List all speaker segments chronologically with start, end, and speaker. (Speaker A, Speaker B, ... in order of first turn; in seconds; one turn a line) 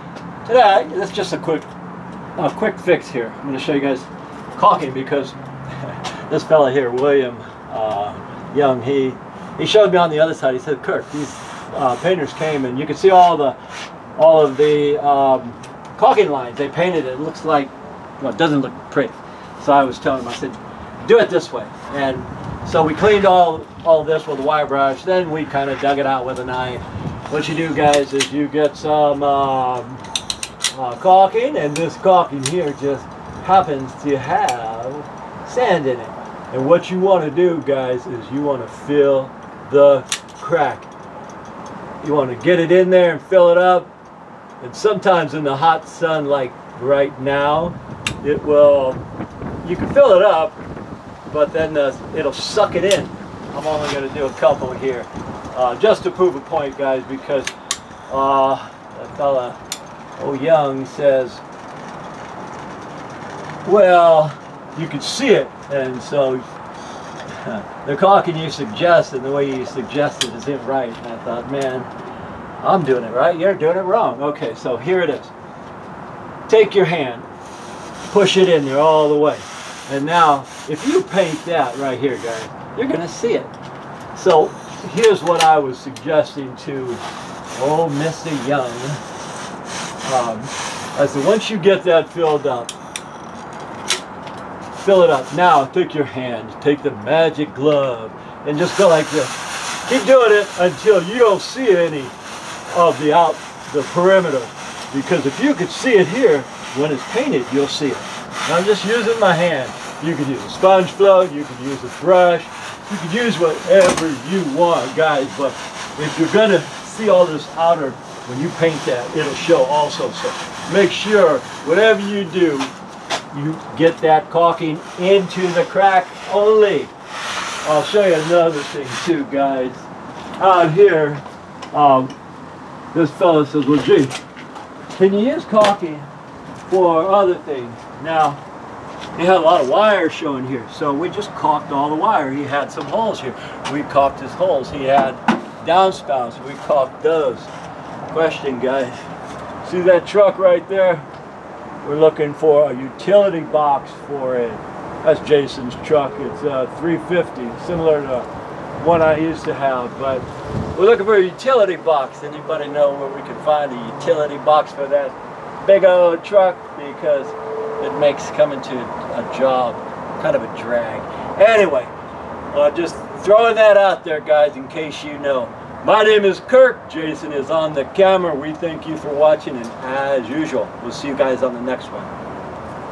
Speaker A: 0.4-1.6
Speaker A: 2.4-13.6
Speaker A: 14.2-30.0
Speaker A: 30.7-40.9
Speaker A: 42.0-43.9
Speaker A: 44.6-49.0
Speaker A: 49.6-50.6
Speaker A: 51.3-57.5
Speaker A: 58.1-59.6
Speaker A: 60.2-61.4
Speaker A: 63.6-66.4
Speaker A: 67.4-71.9
Speaker A: 72.6-75.3
Speaker A: 76.5-77.3
Speaker A: 78.1-83.5
Speaker A: 84.1-87.0
Speaker A: 87.5-89.0
Speaker A: 90.0-92.7
Speaker A: 94.8-102.1
Speaker A: 102.7-122.7
Speaker A: 123.3-126.9
Speaker A: 127.6-129.9
Speaker A: 130.4-132.1
Speaker A: 132.9-134.1
Speaker A: 134.9-136.1
Speaker A: 136.7-138.4
Speaker A: 139.2-147.5
Speaker A: 148.1-149.0
Speaker A: 149.6-151.1
Speaker A: 151.8-158.3
Speaker A: 158.8-171.9
Speaker A: 172.5-182.1